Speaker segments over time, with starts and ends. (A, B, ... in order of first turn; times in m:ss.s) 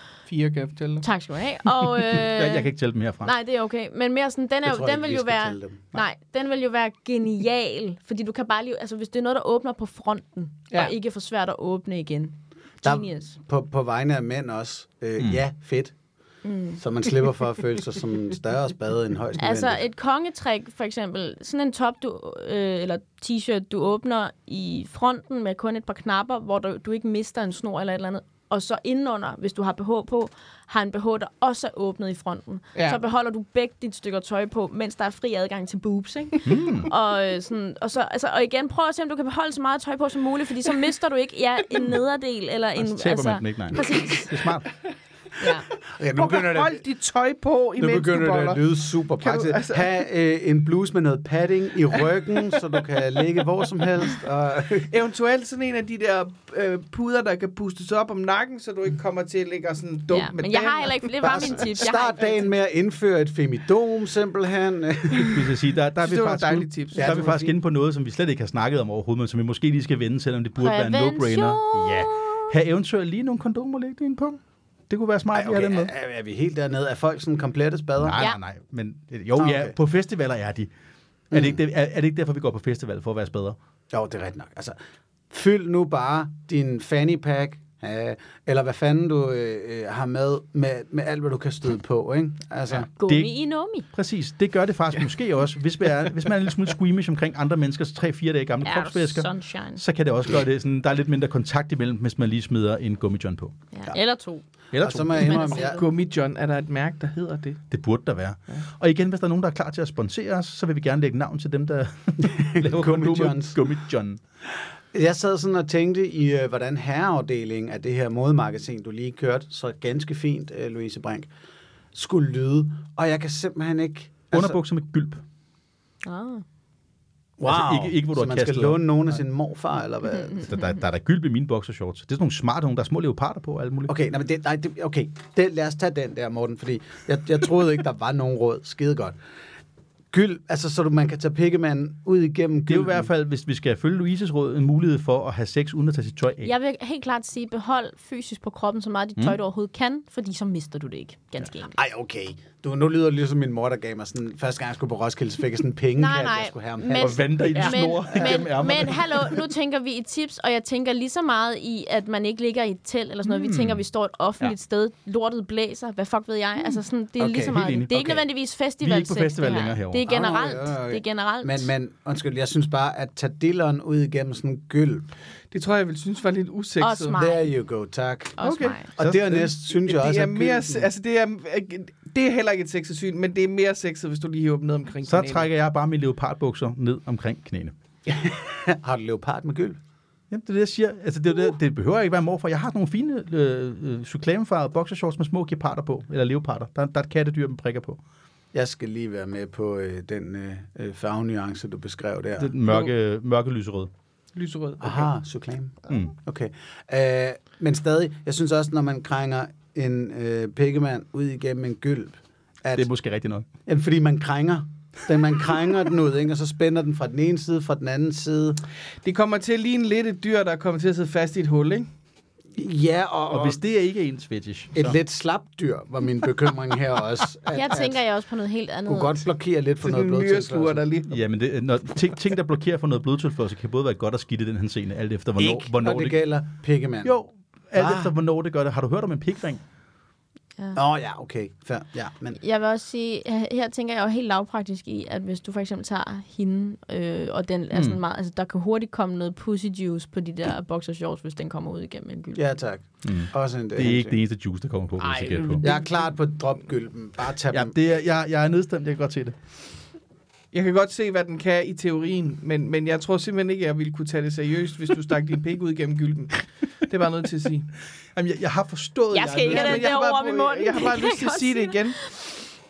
0:00.3-0:01.1 A
0:01.0-0:02.7 B
0:02.1-0:03.3 C
0:03.2-0:13.4 B
0:04.6-0:06.0 D
0:12.8-0:15.9 D
0:16.4-0:16.8 B
0:16.8-0:19.8 D
0:19.4-0:44.5 B
0:32.8-0:33.0 A
0:36.4-0:36.9 C
0:42.8-0:44.7 C
0:45.4-0:45.7 B
0:45.9-0:46.8 D
0:46.2-0:49.9 A
0:47.8-0:54.9 D
0:54.9-1:01.6 A
1:00.1-1:02.5 B
1:01.2-1:05.5 D
1:05.3-1:15.9 C
1:06.0-1:07.4 A
1:07.0-1:07.5 D
1:10.6-1:12.5 B
1:15.3-1:18.2 D
1:18.0-1:20.7 C
1:19.4-1:19.8 D
1:21.3-1:21.6 D
1:21.3-1:23.6 C
1:23.9-1:24.8 D
1:25.3-1:32.9 D
1:32.7-1:33.3 C
1:33.0-1:33.9 B
1:33.9-1:43.6 C
1:38.6-1:39.8 B
1:43.7-1:44.4 B
1:44.7-1:45.4 C
1:44.8-1:45.8 D
1:45.2-1:45.8 B
1:45.4-1:47.6 A
1:47.7-1:54.2 C
1:52.2-1:53.6 D
1:54.9-2:01.3 D
2:01.9-2:04.6 D
2:04.3-2:05.2 C
2:06.0-2:06.4 B
2:07.4-2:10.5 D
2:07.4-2:09.1 C
2:10.4-2:14.0 C
2:13.9-2:19.2 D
2:20.1-2:23.1 D
2:22.7-2:26.5 C
2:26.4-2:31.8 B
2:31.7-2:38.2 D
2:36.0-2:51.7 B
2:37.0-2:39.3 C
2:43.3-2:43.8 C
2:47.2-2:48.2 C
2:48.8-2:50.1 C
2:50.1-2:55.1 D
2:55.5-2:57.2 A
2:56.8-2:57.5 B
2:57.1-3:00.9 D
2:58.4-2:58.9 B
2:58.4-2:58.8 A
2:59.0-2:59.5 C
2:59.7-3:05.5 A
3:05.1-3:07.8 C
3:08.1-3:09.8 D
3:10.3-3:18.0 C
3:18.5-3:22.6 D
3:22.4-3:23.9 C
3:24.3-3:25.0 A
3:24.8-3:32.9 D
3:32.7-3:33.5 C
3:33.7-3:38.6 D
3:39.0-3:41.9 A
3:42.6-3:43.6 D
3:43.3-3:45.0 C
3:44.8-3:48.0 D
3:47.5-3:49.2 B
3:48.9-3:50.8 D
3:49.8-3:51.1 A
3:51.1-3:56.2 C
3:55.4-3:57.2 D
3:57.0-3:59.6 C
3:57.8-3:58.1 D
4:00.7-4:02.4 D
4:02.4-4:12.4 B
4:07.7-4:08.0 C
4:12.4-4:14.2 D
4:13.0-4:15.6 C
4:15.0-4:15.8 A
4:15.6-4:17.7 D
4:17.5-4:19.4 C
4:20.5-4:27.7 A
4:28.1-4:29.9 C
4:29.1-4:32.3 B
4:29.5-4:32.0 A